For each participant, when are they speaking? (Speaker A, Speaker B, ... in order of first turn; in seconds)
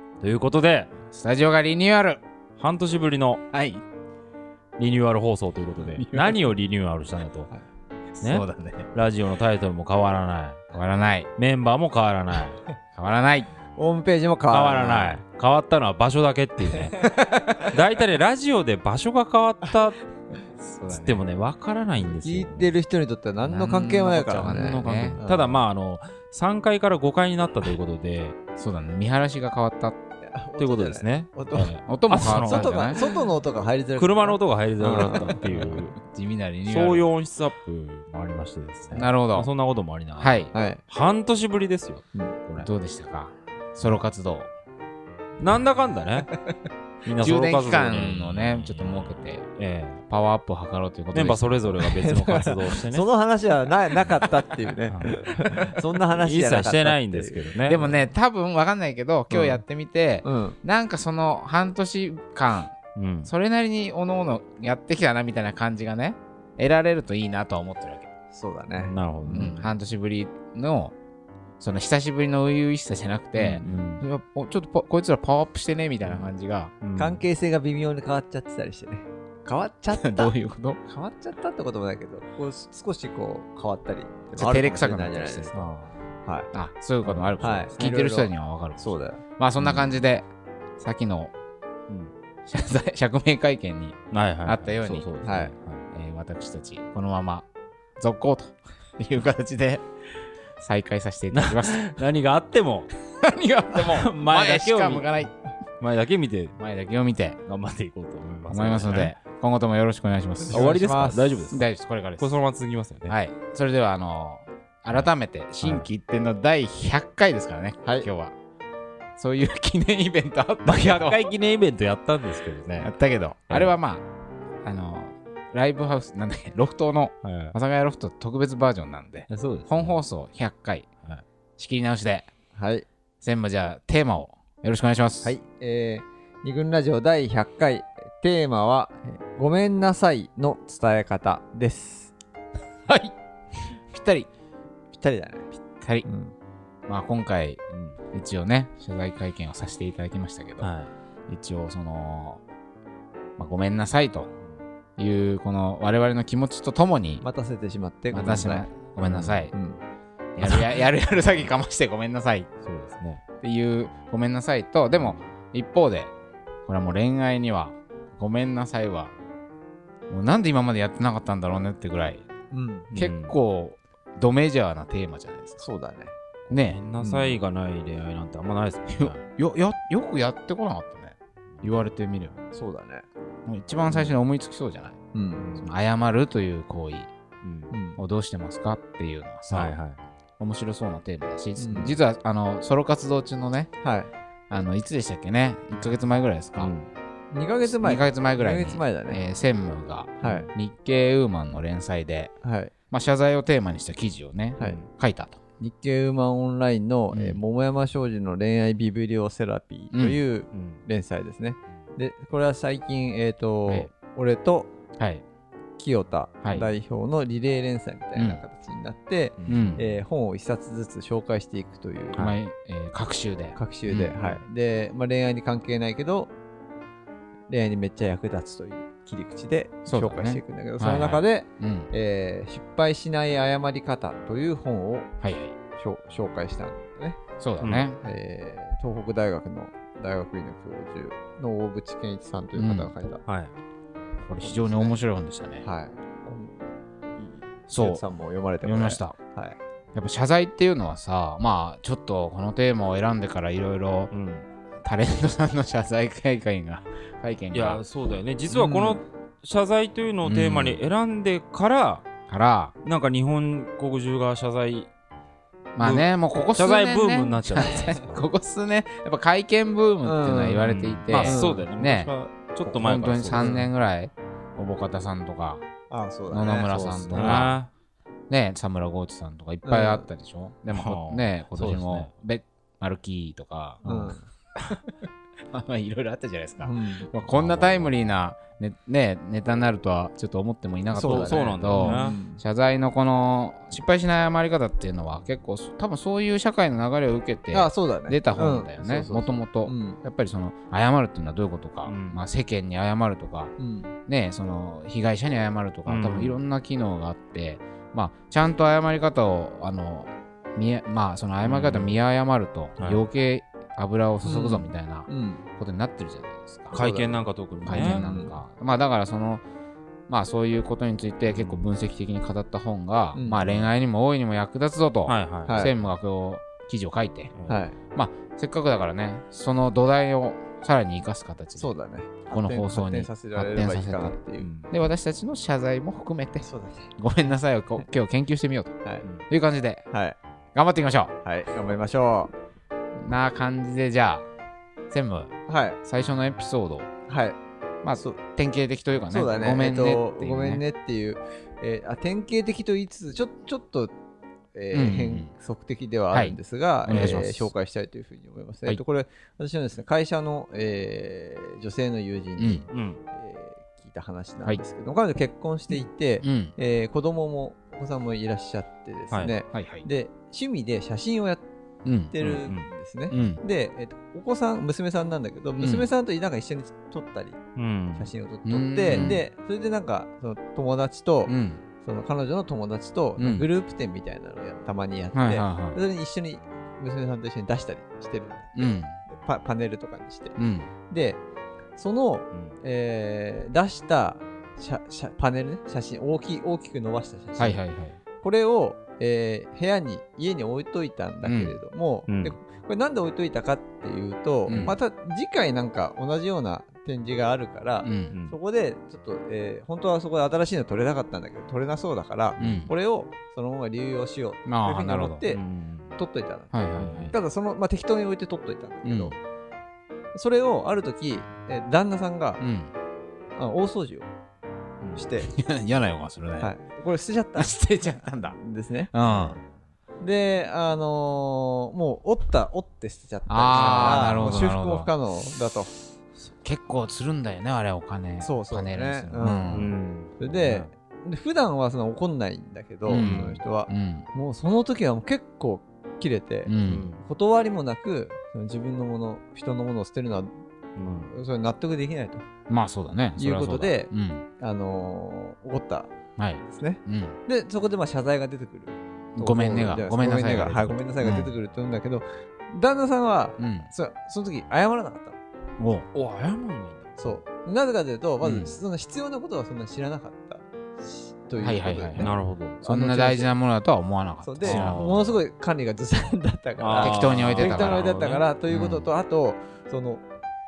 Speaker A: 0.2-0.9, 2.6-3.4, 4.8-7.5, 8.2-10.6, 11.4-12.6, 14.6-20.0, 20.9-22.7, 24.4-28.4, 30.6-33.1, 34.0-36.0, 36.6-42.7, 45.4-46.3, 47.0-50.0, 51.1-53.1, 54.9-58.0, 63.0-63.3, 68.8-69.7, 73.5-74.0, 76.8-77.2, 85.5-85.9, 87.0-87.6, 89.6-89.9, 94.1-95.8, 101.3-102.9, 103.7-105.1, 105.8-106.6, 107.5-109.2, 110.5-111.7, 112.2-113.2, 120.7-122.9, 127.2-127.5, 129.3-130.0, 147.7-148.0, 150.6-150.9, 159.1-159.5, 160.4-160.8, 162.6-163.2, 172.9-173.4, 176.5-179.2, 183.9-184.2, 187.4-187.7, 189.5-190.0, 196.6-196.9, 204.6-204.9, 210.5-210.8, 219.4-219.8, 224.1-224.4, 237.6-237.9, 243.3-243.5, 254.1-254.5, 257.5-262.1, 262.8-264.9, 265.8-268.2, 270.6-273.6, 276.7-277.7, 280.7-282.1, 287.3-287.9, 291.0-292.2, 301.9-302.2, 305.9-306.4, 311.4-312.0, 316.7-318.1, 321.3-321.6, 325.1-325.7, 334.4-334.7, 362.7-363.0, 372.2-372.7, 377.6-378.1, 378.9-379.2, 402.1-402.4, 404.5-404.8, 412.4-412.7, 415.3-416.0, 416.8-417.1, 424.8-425.1, 433.6-434.4, 439.5-440.7, 442.9-443.4, 446.6-447.0, 450.8-451.1, 465.9-467.2, 472.0-472.6, 474.4-474.9, 476.6-478.2
Speaker B: 1.1-2.2, 3.5-3.8, 6.0-6.4, 8.2-8.9, 10.7-11.3, 12.9-13.5, 14.5-15.2, 17.2-17.7, 20.6-21.2, 23.4-25.2, 28.6-30.0, 31.6-33.0, 35.4-37.1, 38.9-39.5, 40.2-40.5, 42.6-44.5, 47.2-49.5, 50.1-51.8, 57.7-62.8, 63.3-68.1, 69.3-71.0, 71.6-76.7, 80.0-80.8, 84.4-85.5, 86.5-90.3, 90.8-91.3, 92.5-95.1, 95.9-97.5, 98.0-99.9, 100.6-102.0, 103.2-105.3, 106.6-107.4, 108.5-110.7, 111.5-112.4, 113.1-118.3, 119.2-121.3, 122.8-124.0, 124.6-130.9, 131.6-132.3, 133.2-135.3, 142.9-143.1, 143.8-144.3, 145.8-146.1, 146.9-150.7, 151.3-152.4, 153.4-154.3, 155.0-157.2, 158.1-159.5, 160.4-162.5, 163.4-166.1, 166.7-169.1, 170.1-172.3, 172.9-175.7, 176.5-176.8, 178.9-182.4, 183.5-185.0, 185.6-187.1, 188.0-189.8, 190.4-193.7, 194.5-196.7, 197.7-202.3, 202.9-205.4, 207.1-207.4, 209.9-210.2, 215.0-215.2, 216.4-216.7, 218.2-218.4, 219.5-219.8, 222.2-224.1, 229.9-231.9, 235.2-235.6, 237.4-238.0, 242.6-242.9, 244.2-245.7, 247.7-248.0, 248.6-249.2, 249.9-254.1, 254.8-258.2, 260.2-260.8, 262.3-262.8, 265.8-272.1, 272.6-275.7, 276.3-277.6, 278.3-284.9, 285.5-303.5, 304.1-316.8, 317.7-319.4, 320.1-327.3, 327.9-331.8, 332.3-334.2, 334.7-336.5, 337.0-338.8, 339.3-339.9, 340.6-341.1, 343.0-344.3, 344.9-345.3, 345.8-346.9, 347.8-350.6, 354.7-355.3, 356.1-357.5, 362.4-362.6, 366.2-366.5, 369.5-369.9, 371.9-372.1, 373.1-373.4, 375.6-375.9, 378.4-379.2, 381.3-381.6, 383.2-383.5, 385.1-385.8, 388.6-389.0, 390.4-390.7, 397.4-398.0, 401.2-401.6, 404.5-404.8, 407.8-408.1, 412.4-412.7, 414.5-415.2, 416.5-417.2, 418.8-419.1, 422.4-422.7, 425.3-426.5, 427.4-428.4, 428.9-429.4, 433.3-434.9, 436.4-439.7, 442.9-444.1, 446.5-446.9, 452.5-454.3, 456.2-457.2, 459.1-461.3, 463.4-463.7, 465.6-465.9, 468.2-468.6, 471.4-472.1, 472.6-475.1, 476.8-477.9, 478.5-478.9
Speaker C: 13.8-15.1, 22.1-25.6, 30.2-35.8, 40.5-40.8, 51.9-57.5, 59.3-59.6, 60.2-60.6, 68.3-68.9, 73.4-73.7, 77.0-80.3, 80.9-85.7, 86.2-86.5, 87.4-89.2, 95.2-95.5, 110.5-111.4, 132.6-132.9, 135.2-142.1, 144.9-145.5, 146.1-146.3, 157.2-158.7, 159.5-159.8, 172.5-172.9, 175.6-176.2, 177.0-177.4, 182.5-183.1, 185.1-185.5, 187.7-188.0, 191.6-192.0, 193.8-194.1, 197.3-199.2, 200.2-200.5, 202.4-202.7, 205.6-214.7, 215.8-222.3, 223.6-226.3, 227.5-235.1, 235.8-237.2, 238.0-243.2, 244.4-244.9, 245.6-246.6, 247.2-249.6, 258.5-259.0, 270.0-270.7, 271.2-271.7, 273.4-273.7, 275.9-277.4, 279.6-280.1, 283.8-284.2, 286.6-287.1, 290.9-292.4, 297.5-300.0, 303.6-303.9, 314.2-315.4, 316.7-317.1, 317.7-318.3, 323.1-323.4, 325.5-325.7, 327.5-327.8, 331.6-334.5, 336.4-336.9, 339.9-340.2, 341.2-342.3, 345.5-345.8, 347.1-347.4, 347.9-348.2, 349.1-353.9, 354.6-371.4, 372.1-377.4, 377.9-390.4, 390.9-391.2, 391.8-397.6, 398.2-415.4, 416.0-419.2, 420.1-422.4, 423.4-424.1, 424.9-425.3, 426.4-427.6, 428.1-428.9, 430.0-435.7, 438.2-450.3, 451.0-452.2, 453.2-455.9, 456.5-465.2, 467.0-473.3, 474.2-480.0